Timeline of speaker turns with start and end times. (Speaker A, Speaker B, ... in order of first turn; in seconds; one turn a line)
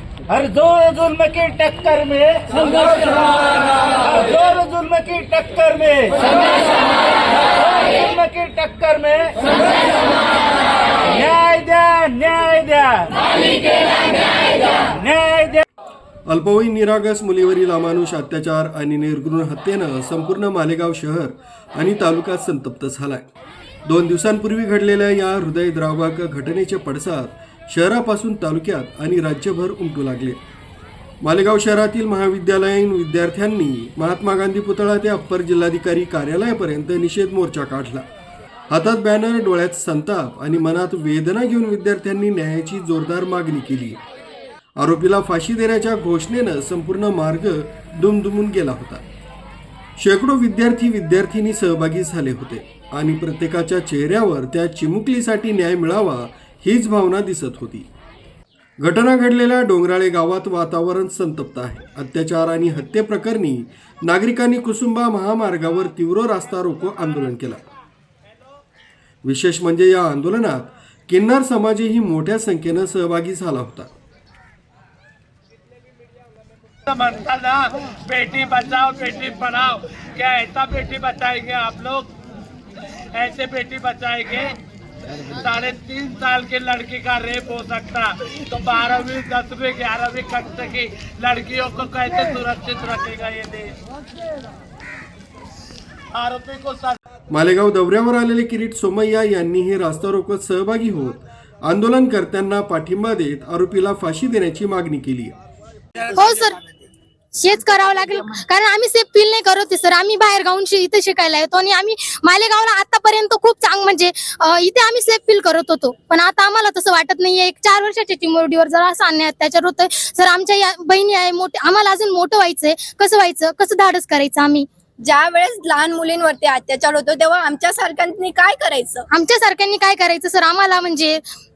Speaker A: 0.3-9.9
Speaker A: 11.1-13.3
Speaker A: 14.8-15.6
Speaker B: 16.3-23.3
Speaker B: 23.9-30.4
Speaker B: 31.2-38.1
Speaker B: 38.7-44.0
Speaker B: 44.8-49.0
Speaker B: 50.0-57.9
Speaker B: 58.8-67.6
Speaker B: 69.2-73.9
Speaker C: 76.9-82.1
Speaker C: 83.1-84.6
Speaker C: 85.2-93.8
Speaker C: 96.1-97.0
Speaker B: 97.3-105.4
Speaker D: 106.1-106.7
Speaker D: 107.4-124.7
Speaker E: 125.0-129.1
Speaker D: 129.1-131.2